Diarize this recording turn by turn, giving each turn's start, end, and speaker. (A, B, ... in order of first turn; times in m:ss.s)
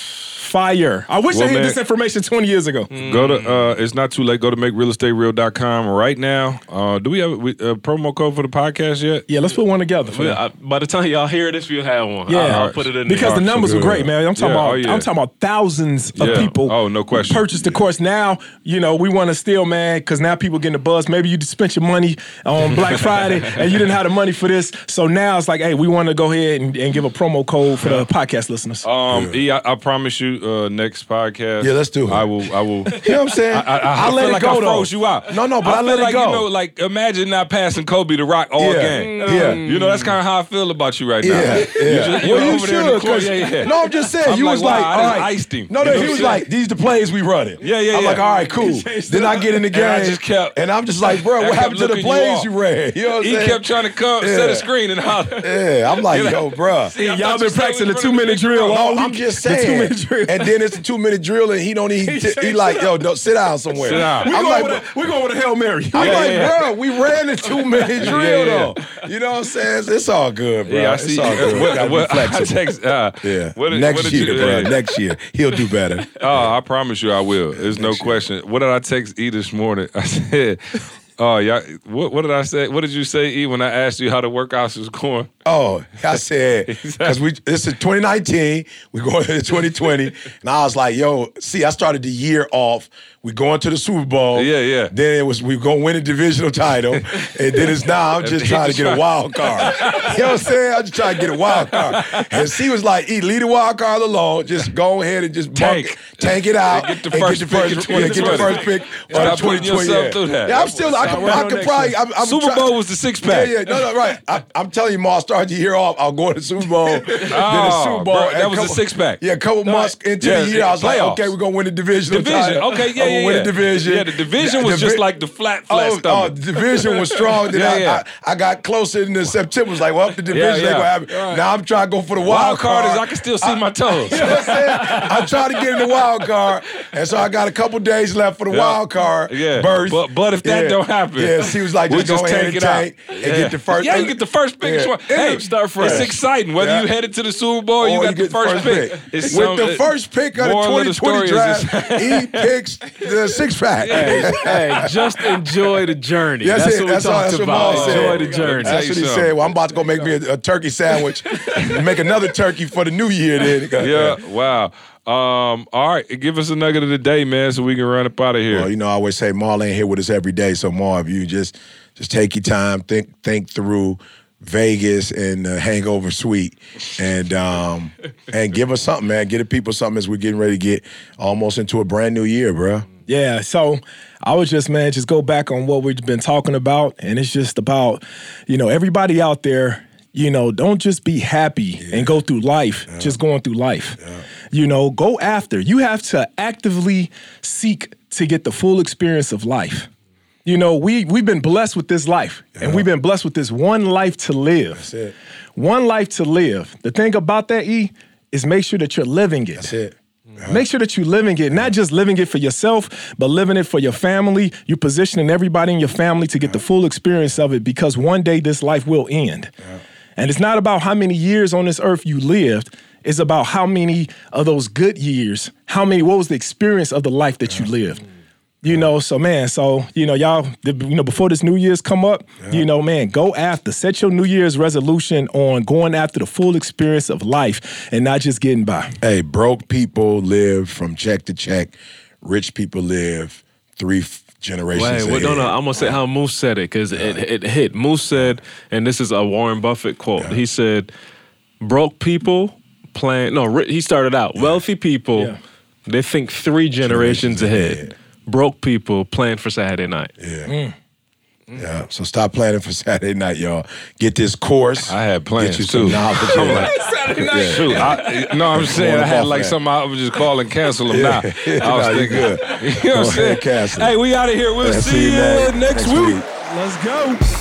0:00.3-0:02.9 A
0:01.3-0:01.8 B
0:02.9-0:03.7 C
0:03.0-0:09.3 B
0:09.3-0:10.4 A
0:10.1-0:13.4 C
0:12.3-0:28.9 A
0:12.4-0:13.8 B
0:13.6-0:14.1 D
0:14.4-0:15.1 B
0:16.2-0:17.6 B
0:16.2-0:16.5 C
0:28.8-0:43.7 B
0:29.1-0:29.4 D
0:31.6-0:32.3 D
0:32.9-0:36.5 D
0:38.6-0:39.6 D
0:38.9-0:40.1 C
0:41.2-0:53.6 D
0:41.6-0:42.5 C
0:44.2-0:46.4 B
0:47.6-0:48.2 B
0:48.2-0:49.6 A
0:49.7-0:52.5 B
0:53.2-0:55.6 B
0:54.2-0:54.7 D
0:55.3-0:56.9 D
0:56.1-0:59.0 B
0:57.0-1:00.5 A
0:58.7-1:04.8 D
1:02.0-1:03.0 A
1:03.8-1:06.5 A
1:03.8-1:04.4 B
1:05.9-1:12.6 D
1:06.0-1:06.7 B
1:07.9-1:08.7 B
1:10.6-1:14.8 B
1:13.2-1:16.5 D
1:16.2-1:25.3 B
1:17.6-1:18.3 D
1:25.4-2:05.0 D
1:26.6-1:27.2 B
1:34.3-1:34.9 B
1:37.0-1:40.4 B
1:41.3-1:42.5 B
1:45.6-1:53.9 B
1:57.2-2:01.3 B
2:02.1-2:08.0 B
2:05.7-2:26.9 D
2:10.3-2:11.4 B
2:12.2-2:16.3 B
2:18.5-2:32.5 B
2:25.3-2:26.2 C
2:27.8-2:35.1 D
2:33.8-2:34.9 B
2:34.0-2:38.8 C
2:36.4-2:44.2 D
2:37.5-2:39.4 B
2:41.4-2:41.8 C
2:43.8-2:48.7 B
2:48.5-3:02.9 D
3:03.1-3:14.0 A
3:11.8-3:12.2 D
3:12.9-3:13.2 D
3:14.5-3:19.9 A
3:20.4-3:24.9 A
3:22.6-3:22.8 D
3:24.7-3:25.1 D
3:25.6-3:29.7 A
3:29.6-3:30.6 D
3:30.4-3:39.5 A
3:40.2-3:48.0 A
3:48.6-3:59.0 A
3:59.0-4:06.0 D
4:04.7-4:10.9 C
4:11.6-4:20.1 C
4:14.4-4:14.6 D
4:16.8-4:17.9 D
4:20.2-4:20.5 D
4:20.4-4:20.7 A
4:21.6-4:28.0 D
4:24.9-4:26.7 B
4:26.5-4:28.1 A
4:27.4-4:36.2 B
4:28.5-4:29.6 D
4:30.9-4:33.9 D
4:34.6-4:36.3 D
4:36.4-4:37.2 A